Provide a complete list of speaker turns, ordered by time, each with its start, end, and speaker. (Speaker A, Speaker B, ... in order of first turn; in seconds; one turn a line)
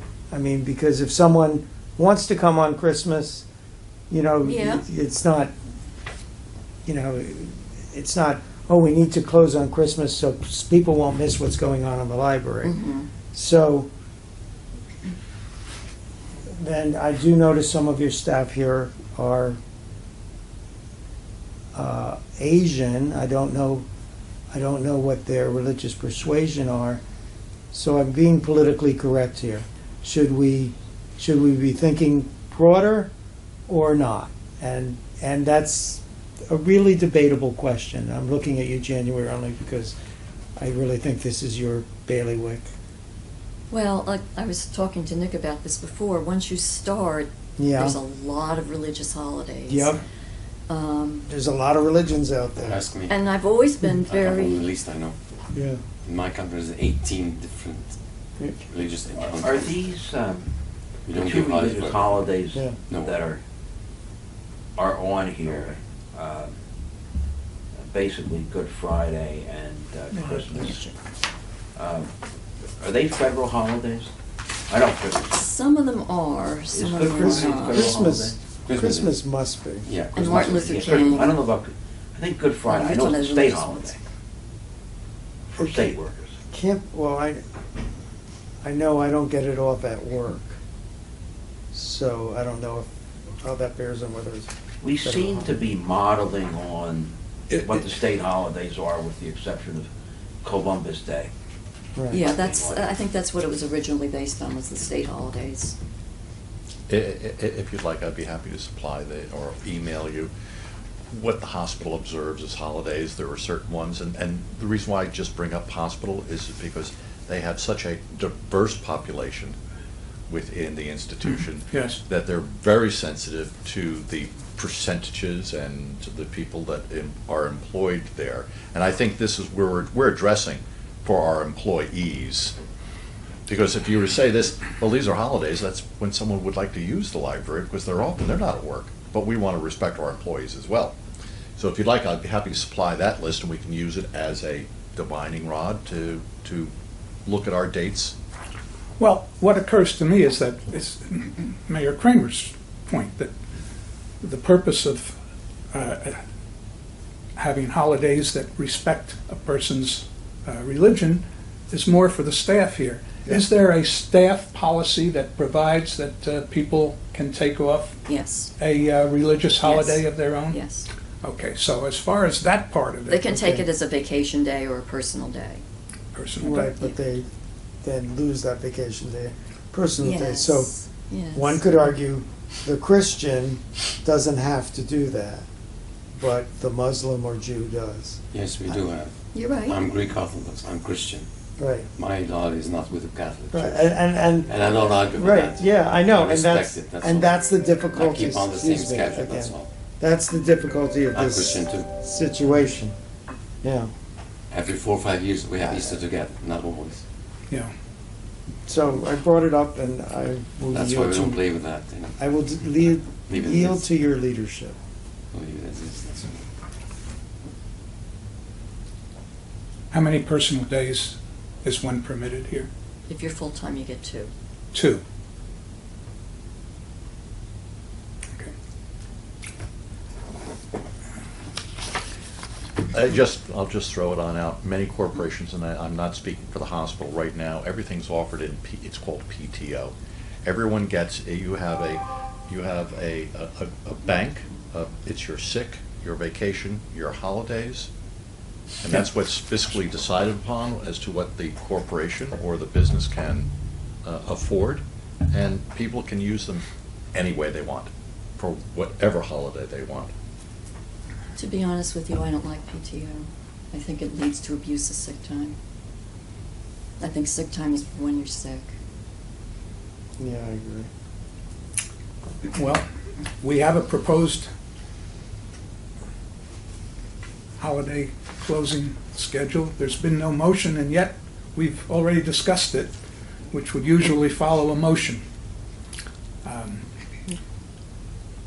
Speaker A: 0.3-3.5
Speaker A: 4.1-5.5
Speaker B: 4.4-4.8
Speaker A: 6.8-12.8
Speaker B: 12.6-13.1
Speaker A: 13.3-13.9
Speaker A: 16.5-19.6
Speaker A: 21.7-23.9
Speaker A: 24.5-27.0
Speaker A: 27.7-33.1
Speaker A: 33.7-40.0
Speaker A: 40.6-42.7
Speaker B: 43.7-49.9
Speaker A: 47.6-48.0
Speaker A: 49.7-50.0
Speaker B: 50.7-51.3
Speaker A: 51.3-52.8
Speaker C: 52.6-53.2
Speaker B: 53.1-54.6
Speaker C: 54.0-55.2
Speaker A: 55.5-55.8
Speaker C: 56.0-58.0
Speaker C: 58.6-59.8
Speaker D: 59.3-60.5
Speaker C: 61.0-62.3
Speaker D: 61.1-63.4
Speaker C: 62.9-63.1
Speaker D: 64.8-66.5
Speaker D: 67.8-70.8
Speaker B: 70.5-70.9
Speaker D: 71.8-72.1
Speaker D: 72.8-74.1
Speaker D: 74.7-75.4
Speaker B: 75.3-77.9
Speaker D: 76.7-78.4
Speaker A: 77.1-79.8
Speaker C: 78.7-79.1
Speaker C: 79.8-81.1
Speaker B: 80.1-81.4
Speaker D: 80.2-84.0
Speaker B: 82.6-84.0
Speaker D: 85.5-86.3
Speaker A: 85.6-86.0
Speaker A: 86.5-87.4
Speaker A: 88.6-90.6
Speaker A: 91.7-92.9
Speaker A: 93.4-95.5
Speaker D: 94.8-99.9
Speaker D: 100.4-101.3
Speaker B: 102.1-105.8
Speaker D: 102.1-102.9
Speaker E: 106.9-110.3
Speaker E: 111.1-119.6
Speaker E: 120.3-132.5
Speaker F: 121.7-122.0
Speaker E: 133.5-140.9
Speaker E: 141.6-146.7
Speaker E: 147.2-148.1
Speaker F: 149.0-153.3
Speaker F: 154.2-155.1
Speaker F: 155.7-156.2
Speaker F: 157.4-168.0
Speaker B: 168.1-168.5
Speaker F: 168.6-170.6
Speaker B: 169.6-170.9
Speaker F: 171.2-173.2
Speaker B: 173.1-175.6
Speaker A: 173.3-173.7
Speaker F: 176.1-176.7
Speaker A: 176.4-177.3
Speaker B: 176.6-176.9
Speaker A: 177.8-180.8
Speaker B: 180.0-181.6
Speaker A: 181.3-185.4
Speaker A: 186.2-188.2
Speaker C: 188.3-189.1
Speaker B: 189.3-189.8
Speaker C: 189.6-191.3
Speaker A: 191.6-191.9
Speaker C: 191.9-193.9
Speaker A: 193.5-202.9
Speaker C: 194.4-197.3
Speaker C: 197.9-199.7
Speaker C: 201.1-201.9
Speaker A: 203.6-203.9
Speaker C: 204.5-207.0
Speaker A: 208.7-211.4
Speaker C: 210.7-212.2
Speaker A: 212.2-214.8
Speaker C: 213.3-213.8
Speaker C: 215.3-216.4
Speaker F: 219.9-222.7
Speaker B: 223.1-224.3
Speaker F: 224.7-225.0
Speaker E: 232.9-247.9
Speaker E: 248.8-253.5
Speaker E: 254.0-260.1
Speaker B: 261.3-265.6
Speaker B: 267.0-268.7
Speaker A: 270.2-270.9
Speaker F: 272.5-272.8
Speaker F: 273.4-274.5
Speaker F: 277.6-282.9
Speaker F: 283.5-285.2
Speaker F: 286.4-286.8